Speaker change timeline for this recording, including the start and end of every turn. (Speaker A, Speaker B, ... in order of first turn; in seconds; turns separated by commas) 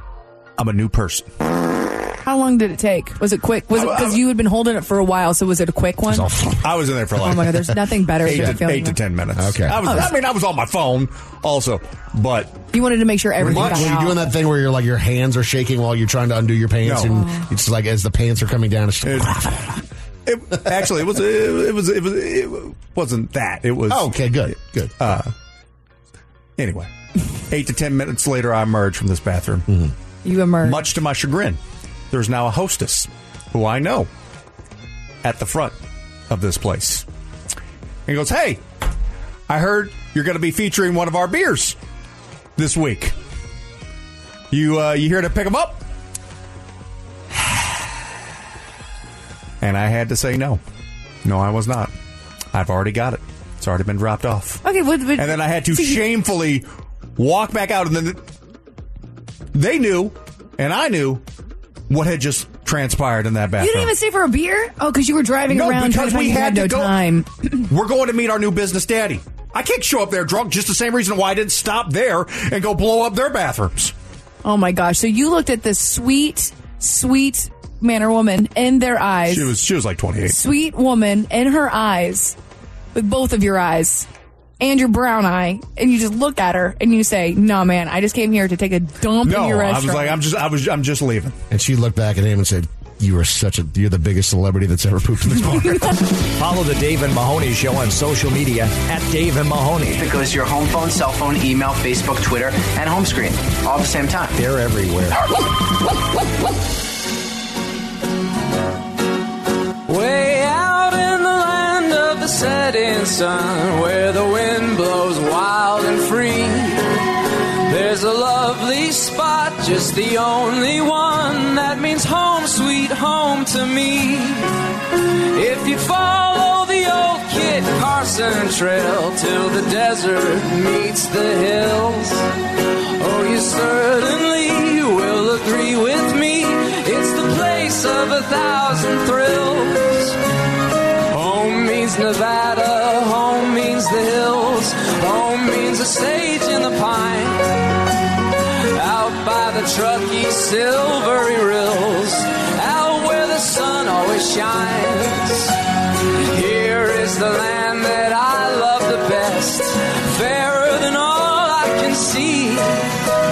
Speaker A: 0.6-1.3, Speaker B: 2.2-6.3, Speaker A: 3.7-4.2, Speaker C: 6.1-6.6, Speaker A: 6.6-12.6, Speaker B: 7.2-9.0, Speaker C: 8.3-8.6, Speaker C: 9.4-10.1, Speaker B: 12.7-14.2, Speaker A: 13.4-13.8, Speaker C: 13.4-19.7, Speaker A: 16.8-17.1, Speaker B: 17.1-17.5, Speaker A: 19.1-19.5, Speaker A: 20.3-25.3, Speaker C: 23.9-25.1, Speaker A: 26.6-26.9, Speaker A: 27.5-29.7, Speaker B: 30.2-30.8, Speaker A: 30.6-31.6, Speaker A: 32.1-34.1, Speaker A: 35.2-35.8, Speaker A: 36.3-37.0, Speaker A: 38.1-38.6, Speaker A: 39.5-41.8, Speaker A: 42.6-43.1, Speaker A: 44.5-45.8, Speaker A: 49.6-50.6, Speaker A: 51.2-51.9, Speaker A: 52.5-54.6, Speaker B: 54.6-56.0, Speaker A: 55.2-58.2, Speaker A: 59.5-61.2, Speaker A: 61.9-63.9, Speaker B: 63.6-67.7, Speaker A: 65.5-67.0, Speaker A: 67.7-73.9, Speaker B: 74.4-79.5, Speaker A: 79.3-80.4, Speaker B: 80.3-82.4, Speaker B: 83.0-84.1, Speaker B: 84.6-90.2, Speaker A: 89.2-91.3, Speaker C: 91.5-95.9, Speaker D: 96.2-100.1, Speaker E: 100.0-104.4, Speaker D: 104.4-105.2, Speaker F: 109.9-116.8, Speaker F: 117.7-124.5, Speaker F: 125.3-132.2, Speaker F: 133.0-140.2, Speaker F: 141.1-147.5, Speaker F: 148.8-155.6, Speaker F: 156.3-162.8